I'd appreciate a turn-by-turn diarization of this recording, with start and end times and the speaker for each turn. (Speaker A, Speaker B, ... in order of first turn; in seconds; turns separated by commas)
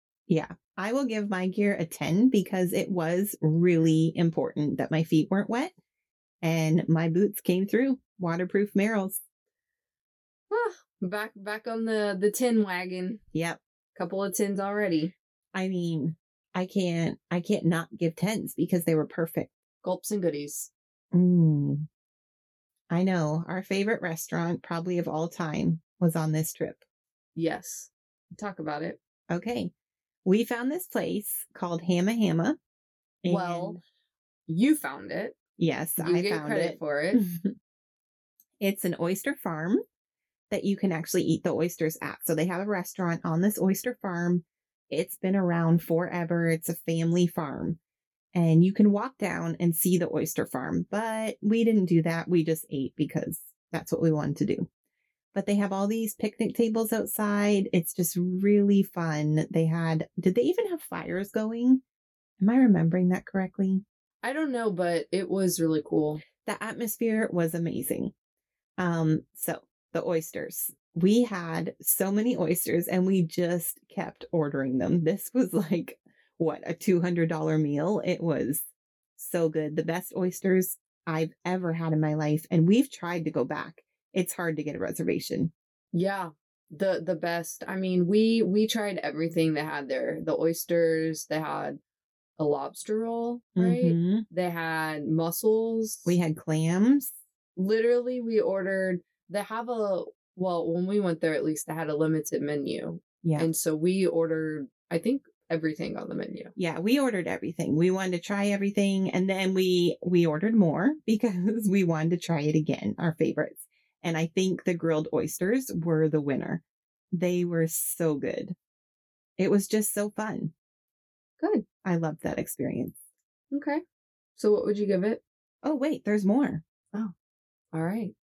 Speaker A: 0.3-5.7, Speaker A: 6.4-9.2, Speaker B: 10.5-13.2, Speaker A: 13.3-13.6, Speaker B: 14.0-15.1, Speaker A: 15.5-19.5, Speaker B: 19.8-20.7, Speaker A: 21.1-21.9, Speaker A: 22.9-26.8, Speaker B: 27.4-29.0, Speaker A: 29.3-29.7, Speaker A: 30.2-32.6, Speaker A: 33.2-33.8, Speaker B: 33.3-33.8, Speaker B: 34.5-35.4, Speaker A: 35.6-37.5, Speaker B: 36.0-37.2, Speaker A: 38.6-39.8, Speaker A: 40.5-47.8, Speaker A: 48.3-54.7, Speaker A: 55.3-61.8, Speaker A: 62.4-63.8, Speaker B: 64.2-66.2, Speaker A: 66.4-68.1, Speaker A: 68.8-78.6, Speaker A: 79.2-85.5, Speaker B: 85.9-91.8, Speaker B: 92.4-96.2, Speaker A: 93.6-94.2, Speaker A: 96.1-97.1, Speaker B: 97.6-106.5, Speaker A: 103.2-103.5, Speaker A: 106.6-116.6, Speaker A: 117.1-118.5, Speaker A: 119.4-120.5, Speaker B: 121.4-121.7, Speaker A: 121.8-123.0, Speaker B: 123.5-123.8, Speaker B: 124.4-125.2, Speaker A: 125.6-126.6, Speaker B: 127.7-128.1